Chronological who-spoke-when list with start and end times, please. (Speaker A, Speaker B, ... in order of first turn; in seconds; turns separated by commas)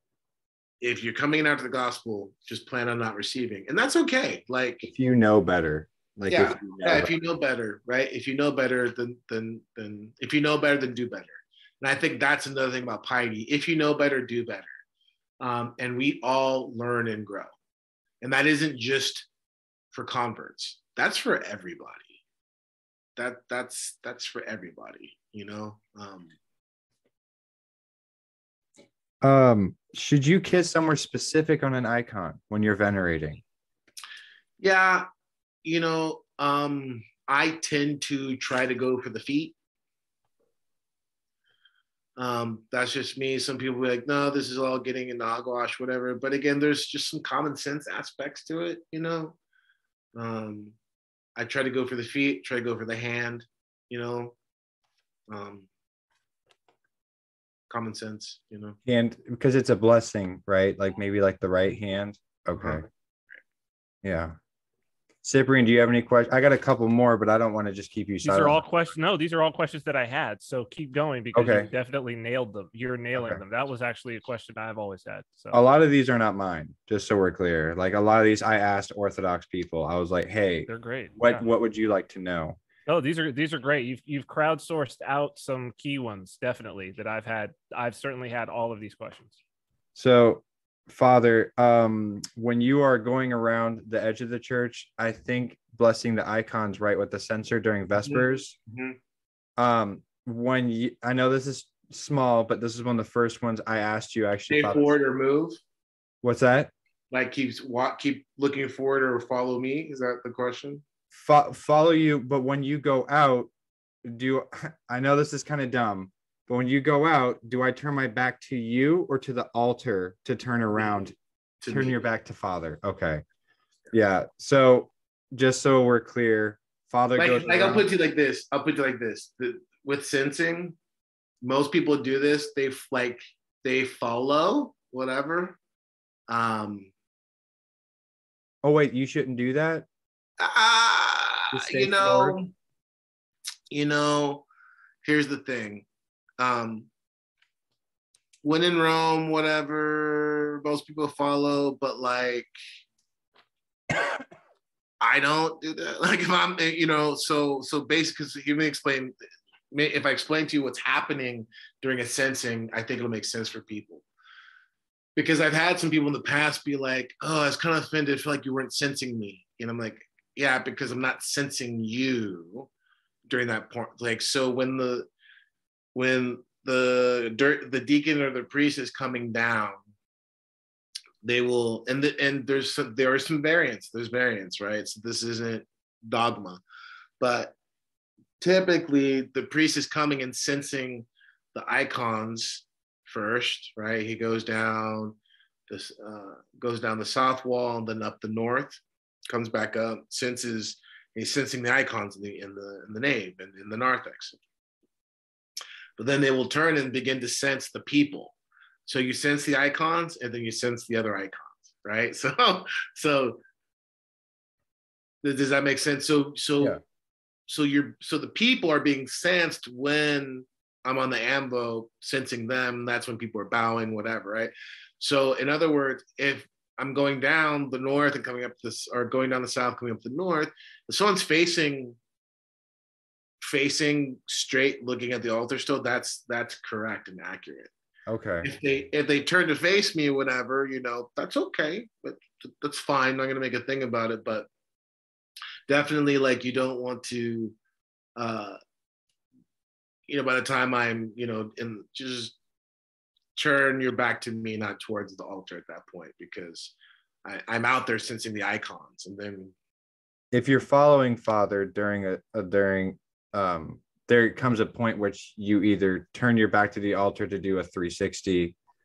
Speaker A: 0.8-4.9, Speaker B: 4.9-7.1, Speaker A: 6.3-14.7, Speaker A: 15.4-17.5, Speaker A: 18.2-19.3, Speaker A: 19.9-22.2, Speaker A: 23.2-26.3, Speaker B: 29.2-33.4, Speaker A: 34.6-35.1, Speaker A: 35.6-39.5, Speaker A: 42.2-49.4, Speaker A: 50.1-50.8, Speaker A: 51.4-54.4, Speaker A: 55.3-55.7, Speaker A: 57.7-58.8, Speaker B: 58.9-62.9, Speaker B: 64.0-64.3, Speaker B: 65.2-68.6, Speaker C: 68.2-75.6, Speaker B: 71.3-71.7, Speaker B: 73.2-73.4, Speaker B: 75.5-82.6, Speaker C: 80.7-81.5, Speaker C: 82.9-89.4, Speaker B: 90.0-98.5, Speaker A: 98.0-99.0, Speaker B: 99.6-104.9, Speaker A: 104.5-105.6, Speaker B: 106.2-106.7, Speaker A: 107.1-110.8, Speaker B: 111.1-113.5, Speaker B: 114.0-123.2, Speaker A: 121.6-122.0, Speaker B: 123.9-127.9, Speaker A: 127.2-130.8, Speaker A: 131.4-135.6, Speaker A: 136.3-136.9, Speaker B: 138.6-139.9, Speaker A: 140.4-142.5, Speaker B: 141.5-142.4, Speaker A: 143.7-144.4, Speaker A: 145.0-145.9, Speaker A: 146.4-146.9, Speaker A: 148.4-152.5, Speaker A: 155.0-159.2, Speaker A: 159.7-164.1, Speaker A: 165.2-172.7, Speaker A: 173.3-175.1, Speaker A: 175.9-179.8, Speaker A: 181.2-186.6, Speaker A: 187.2-187.6, Speaker A: 188.4-195.2, Speaker A: 195.7-204.4, Speaker A: 206.0-208.3, Speaker A: 208.9-213.4, Speaker A: 215.2-216.8, Speaker A: 217.5-232.0, Speaker A: 233.4-237.7, Speaker B: 238.1-238.5, Speaker A: 238.4-244.5, Speaker A: 245.7-247.6, Speaker A: 248.2-248.6, Speaker A: 250.1-252.4, Speaker A: 253.3-256.7, Speaker A: 257.2-259.5, Speaker B: 260.3-268.6